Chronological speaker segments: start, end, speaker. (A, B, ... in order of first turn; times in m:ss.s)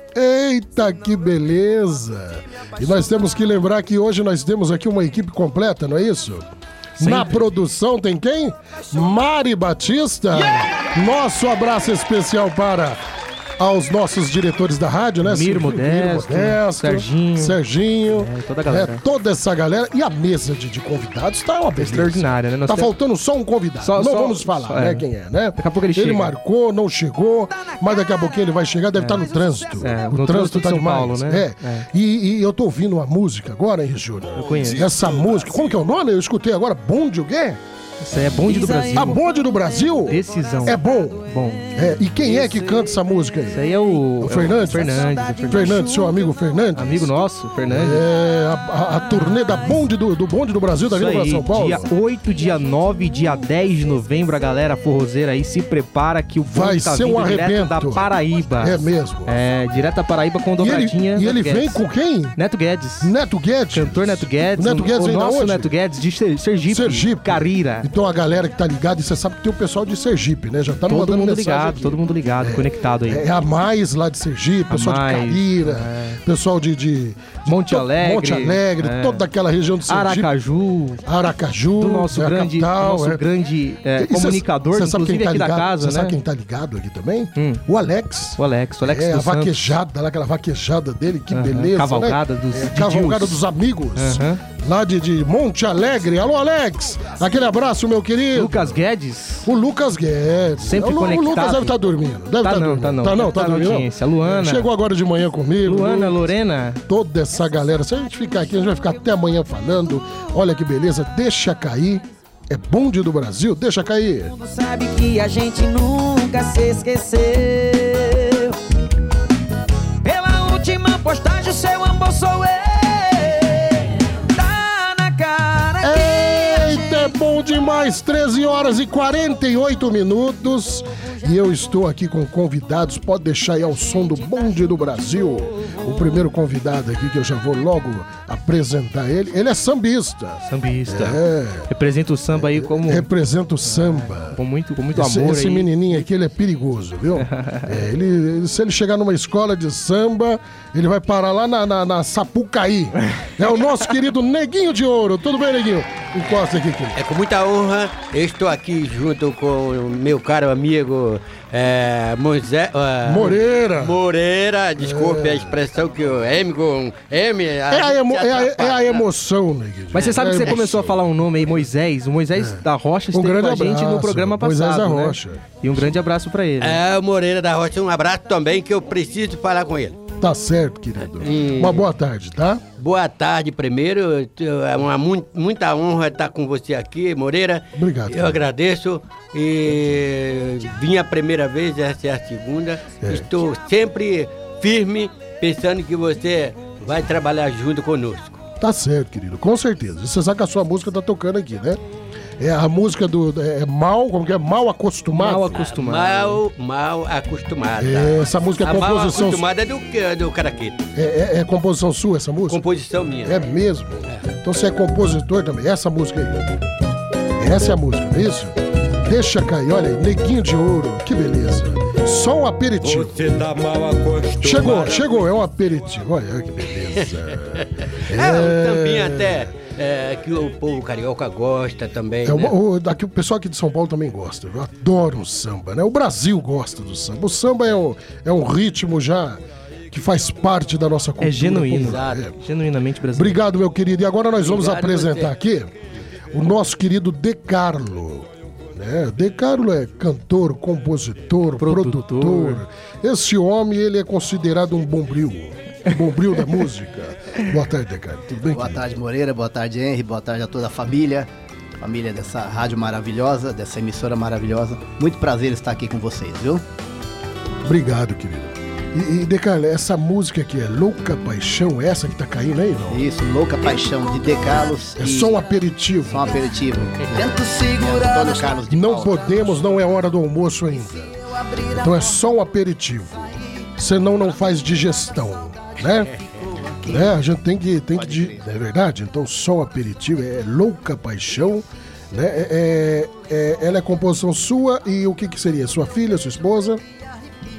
0:00.1-0:06.5 A
0:07.0-0:07.4 B
0:07.0-0:13.0 A
0:13.6-0:37.6 A
0:15.2-0:17.6 B
0:18.1-0:19.0 B
0:21.8-0:22.9 B
0:23.8-0:26.3 B
0:28.9-0:31.9 B
0:34.3-0:35.0 B
0:38.0-0:39.2 B
0:38.4-0:39.1 C
0:38.9-0:41.2 A
0:40.1-0:41.7 B
0:41.7-0:47.1 A
0:42.3-0:42.9 C
0:43.5-0:46.0 B
0:44.9-0:46.0 C
0:46.7-0:48.0 B
0:47.7-0:51.9 A
0:50.9-1:01.8 B
0:56.5-0:58.1 A
0:58.6-0:59.4 A
1:00.6-1:02.4 A
1:02.4-1:03.1 B
1:03.0-1:05.7 A
1:03.7-1:07.9 B
1:06.7-1:20.3 A
1:10.9-1:13.2 B
1:14.7-1:16.2 B
1:17.5-1:19.2 B
1:19.9-1:21.0 B
1:21.0-1:23.2 A
1:21.8-1:26.2 B
1:24.0-1:38.8 A
1:27.4-1:27.6 B
1:28.4-1:29.7 B
1:31.3-1:33.4 B
1:34.0-1:34.4 B
1:38.3-1:39.5 B
1:39.4-1:46.2 A
1:40.6-1:41.7 B
1:42.4-1:44.7 B
1:45.6-1:46.8 B
1:46.9-1:54.3 A
1:54.3-1:58.5 C
2:00.0-2:07.1 C
2:05.8-2:21.7 A
2:20.4-2:23.1 B
2:22.3-2:24.4 A
2:23.6-2:26.0 B
2:24.9-2:37.0 A
2:27.2-2:27.8 B
2:37.0-2:49.0 D
2:43.0-2:44.0 A
2:44.8-2:45.5 A
2:47.7-2:50.9 A
2:49.9-2:56.8 B
2:49.9-2:50.9 D
2:52.4-2:56.0 A
2:56.6-3:00.0 D
3:00.2-3:02.6 A
3:01.1-3:01.9 D
3:02.8-3:18.4 D
3:07.7-3:08.4 A
3:13.0-3:13.3 A
3:18.6-3:21.8 A
3:22.4-3:25.6 A
3:25.1-3:26.4 B
3:25.5-3:30.9 D
3:27.8-3:29.4 A
3:31.0-3:32.6 A
3:32.5-3:33.5 D
3:33.2-3:36.5 A
3:37.4-3:43.3 A
3:42.8-3:45.0 E
3:44.4-3:49.4 A
3:44.7-3:45.0 D
3:46.8-3:52.5 D
3:52.2-4:02.3 A
4:01.2-4:03.4 B
4:01.8-4:02.2 D
4:03.1-4:05.7 A
4:04.4-4:05.4 D
4:06.3-4:18.8 A
4:11.6-4:12.6 B
4:18.5-4:21.3 F
4:21.8-4:26.6 F
4:27.6-4:33.0 A
4:32.9-4:35.4 F
4:35.0-4:36.3 A
4:36.1-4:39.5 F
4:37.0-4:37.3 D
4:38.7-4:41.1 A
4:41.7-4:46.1 A
4:46.0-4:46.3 D
4:46.8-4:56.8 A
4:48.0-4:48.4 F